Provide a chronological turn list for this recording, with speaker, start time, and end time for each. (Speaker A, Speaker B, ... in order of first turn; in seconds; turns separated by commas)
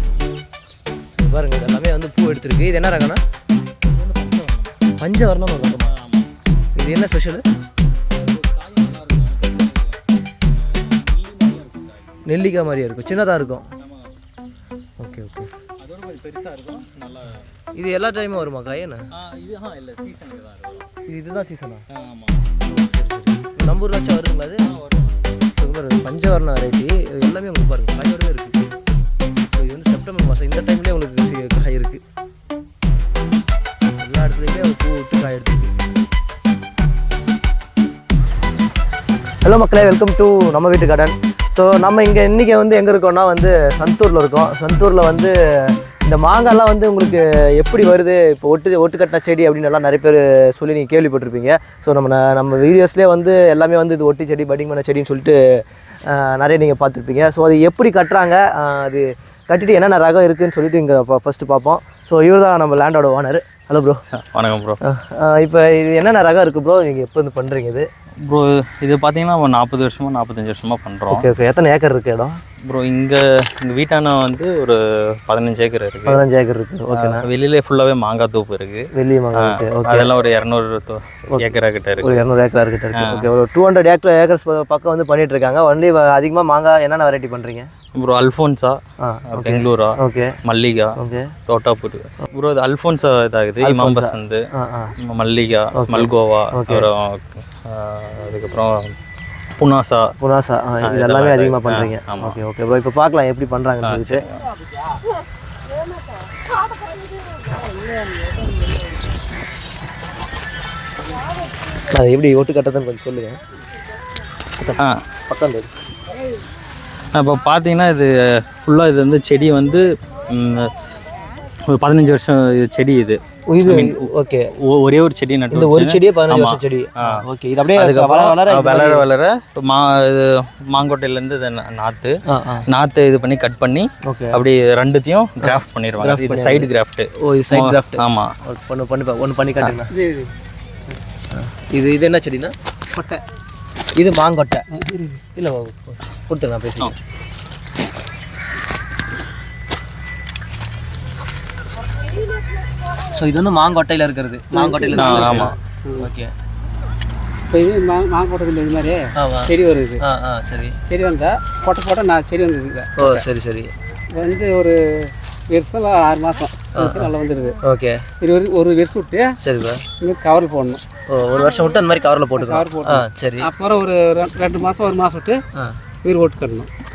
Speaker A: 1.1-3.2, Speaker B: 3.9-4.7, Speaker A: 5.0-5.9, Speaker B: 5.9-6.3, Speaker A: 6.8-7.4, Speaker B: 8.1-12.2, Speaker A: 12.2-13.7, Speaker B: 13.8-14.1, Speaker A: 15.0-15.5, Speaker B: 15.8-17.5, Speaker A: 17.8-19.0, Speaker B: 19.1-20.9, Speaker A: 21.1-21.8, Speaker B: 21.9-22.5, Speaker A: 22.7-24.6, Speaker B: 24.6-25.3, Speaker A: 25.6-28.6, Speaker A: 29.5-32.0, Speaker A: 34.0-35.7, Speaker A: 39.4-55.4, Speaker A: 56.1-64.0, Speaker B: 64.1-64.8, Speaker A: 64.8-67.9, Speaker B: 68.2-71.2, Speaker A: 71.1-72.4, Speaker B: 72.7-76.2, Speaker A: 76.0-77.2, Speaker B: 76.9-82.2, Speaker A: 78.9-80.1, Speaker A: 82.0-87.7, Speaker B: 82.9-83.3, Speaker B: 87.9-88.8, Speaker A: 89.0-90.3, Speaker B: 89.3-90.9, Speaker A: 91.0-91.3, Speaker B: 91.5-94.4, Speaker A: 93.6-94.9, Speaker B: 95.0-98.9, Speaker A: 95.7-96.9, Speaker B: 99.6-100.1, Speaker A: 100.2-104.2, Speaker B: 100.8-102.4, Speaker B: 103.8-104.5, Speaker A: 111.9-113.4, Speaker A: 114.6-115.7, Speaker B: 117.1-120.7, Speaker B: 121.7-127.2, Speaker A: 123.5-124.5, Speaker A: 125.5-129.0, Speaker B: 127.8-132.2, Speaker A: 132.3-132.7, Speaker B: 132.7-138.3, Speaker A: 134.0-134.4, Speaker A: 135.4-139.9, Speaker C: 139.9-140.3, Speaker A: 141.3-142.5, Speaker C: 142.9-143.2, Speaker A: 143.9-144.6, Speaker C: 144.8-145.2, Speaker A: 145.3-146.9, Speaker A: 153.1-156.3, Speaker C: 154.5-156.1, Speaker B: 154.9-155.5, Speaker C: 157.5-160.0, Speaker A: 159.1-160.8, Speaker C: 160.9-163.2, Speaker A: 163.0-163.7, Speaker C: 164.1-167.6, Speaker A: 166.7-167.1, Speaker A: 167.6-168.1, Speaker C: 168.2-169.3, Speaker A: 169.4-169.8, Speaker C: 170.0-170.8, Speaker A: 171.1-173.5, Speaker C: 172.4-175.4, Speaker C: 176.0-176.7